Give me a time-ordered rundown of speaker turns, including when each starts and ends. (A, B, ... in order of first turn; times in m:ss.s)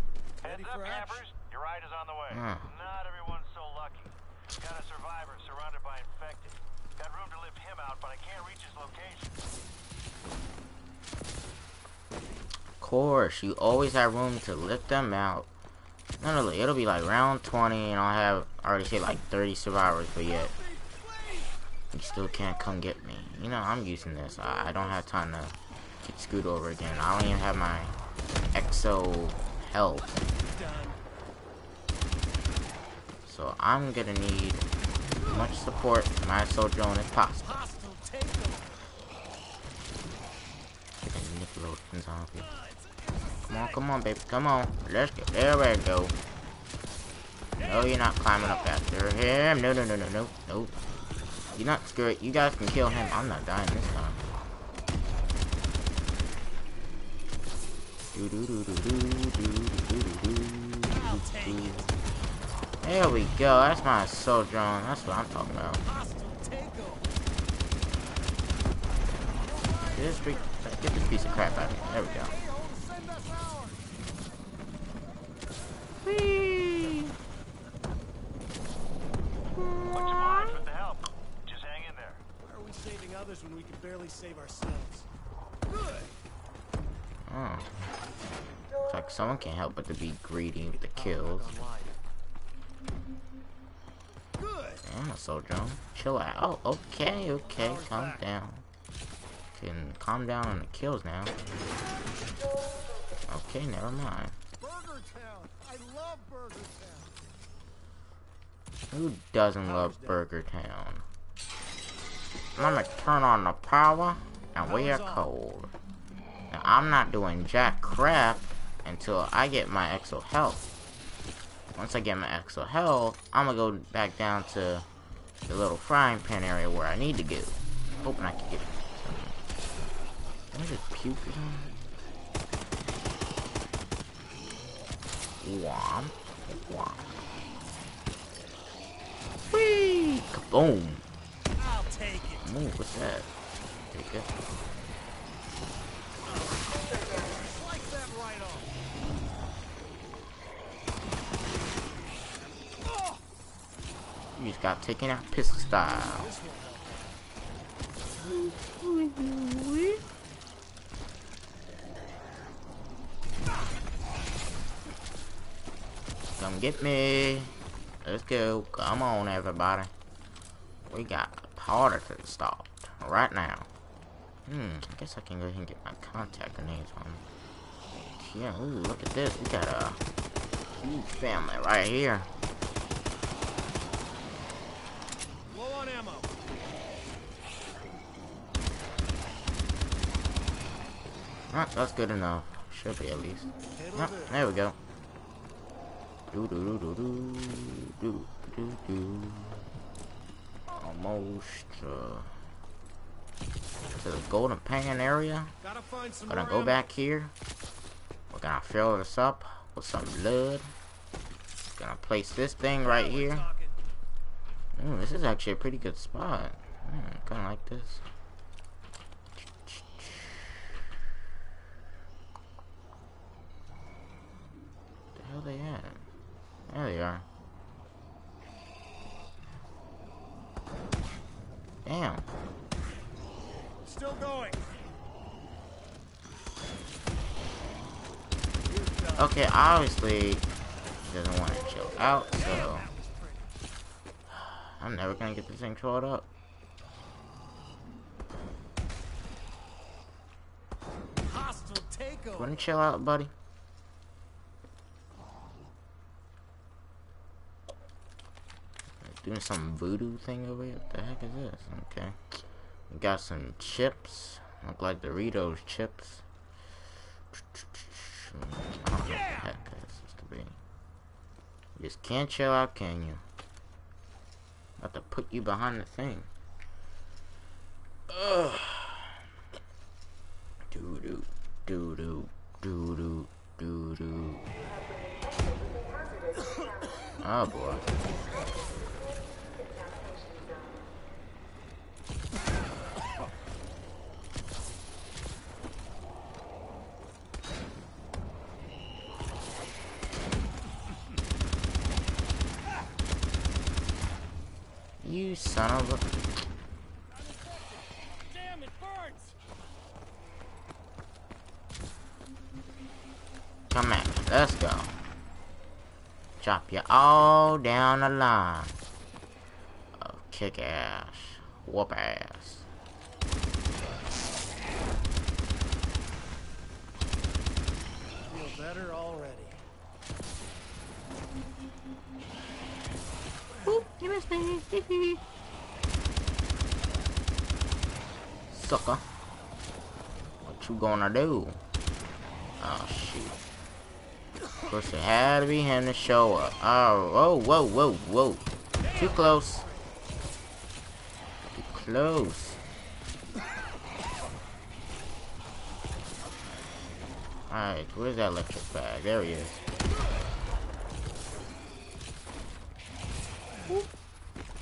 0:00.4-0:01.2 A
0:00.4-0:09.4 B
0:02.3-0:02.7 C
0:12.8-0:15.5 C
0:16.2-0:20.5 C
0:20.3-0:21.6 A
0:21.9-0:27.9 C
0:23.4-0:25.1 A
0:28.5-0:30.2 C
0:30.3-0:31.0 A
0:33.3-0:34.7 C
0:35.2-0:37.6 C
0:37.4-0:38.9 A
0:41.0-0:42.5 C
0:42.4-0:43.8 A
0:43.5-0:46.2 C
0:47.6-0:48.0 A
0:47.6-0:50.8 C
0:51.5-0:54.2 C
0:58.1-1:01.8 C
1:00.9-1:01.9 A
1:02.8-1:05.8 C
1:05.8-1:07.1 A
1:09.4-1:13.8 A
1:10.0-1:12.4 C
1:16.0-1:17.2 C
1:19.6-1:20.5 C
1:19.8-1:22.2 B
1:22.4-1:25.1 A
1:25.7-1:26.1 A
1:27.3-1:27.8 C
1:28.8-1:31.5 C
1:30.6-1:32.0 A
1:34.4-1:34.8 A
1:34.8-1:38.6 C
1:37.5-1:38.2 A
1:39.6-1:41.4 C
1:43.3-1:44.4 C
1:44.6-1:47.2 A
1:48.9-1:51.0 C
1:49.6-1:50.2 A
1:52.6-1:55.7 C
1:54.6-1:55.3 A
1:56.5-2:00.7 C
2:01.8-2:04.9 C
2:05.5-2:09.4 C
2:10.5-2:11.8 C
2:15.4-2:17.2 C
2:19.5-2:21.0 C
2:21.6-2:22.4 A
2:22.4-2:23.4 C
2:23.9-2:24.3 C
2:26.6-2:28.7 A
2:32.9-2:33.2 A
2:34.4-2:36.3 C
2:35.8-2:37.2 A
2:38.2-2:40.0 C
2:46.4-2:47.5 C
2:48.0-2:49.9 C
2:50.9-2:53.7 C
2:54.5-2:57.2 C
2:58.0-3:00.0 C
3:00.8-3:02.3 C
3:05.5-3:06.4 A
3:11.5-3:14.8 C
3:13.8-3:14.4 A
3:16.3-3:19.6 C
3:20.7-3:22.3 C
3:24.0-3:25.5 C
3:25.6-3:26.8 A
3:26.3-3:27.3 C
3:28.3-3:30.7 C
3:31.8-3:33.5 C
3:32.8-3:33.8 A
3:34.8-3:38.0 C
3:39.4-3:40.4 C
3:45.2-3:46.0 C
3:46.7-3:47.2 C
3:51.8-3:52.2 C
3:53.8-3:54.7 A
3:58.7-3:59.4 A
3:59.2-4:00.5 C
4:01.0-4:02.9 C
4:02.3-4:03.6 A
4:04.3-4:06.3 C
4:11.2-4:12.6 A
4:12.4-4:13.3 C
4:19.0-4:22.2 C
4:22.9-4:26.2 C
4:27.3-4:30.6 C
4:29.0-4:29.5 A
4:31.8-4:33.2 C
4:34.8-4:36.3 C
4:38.1-4:39.2 C
4:40.7-4:44.5 C
4:47.2-4:47.9 C
5:05.0-5:06.2 C
5:07.1-5:09.4 A
5:13.7-5:15.0 C
5:16.4-5:18.8 C
5:20.0-5:22.6 C
5:28.3-5:29.6 A
5:33.6-5:35.2 C
5:38.5-5:39.0 C
5:40.4-5:41.6 C
5:42.6-5:43.4 C
5:44.6-5:49.6 C
5:48.8-5:50.0 A
5:51.5-5:52.6 C
5:57.5-5:59.6 C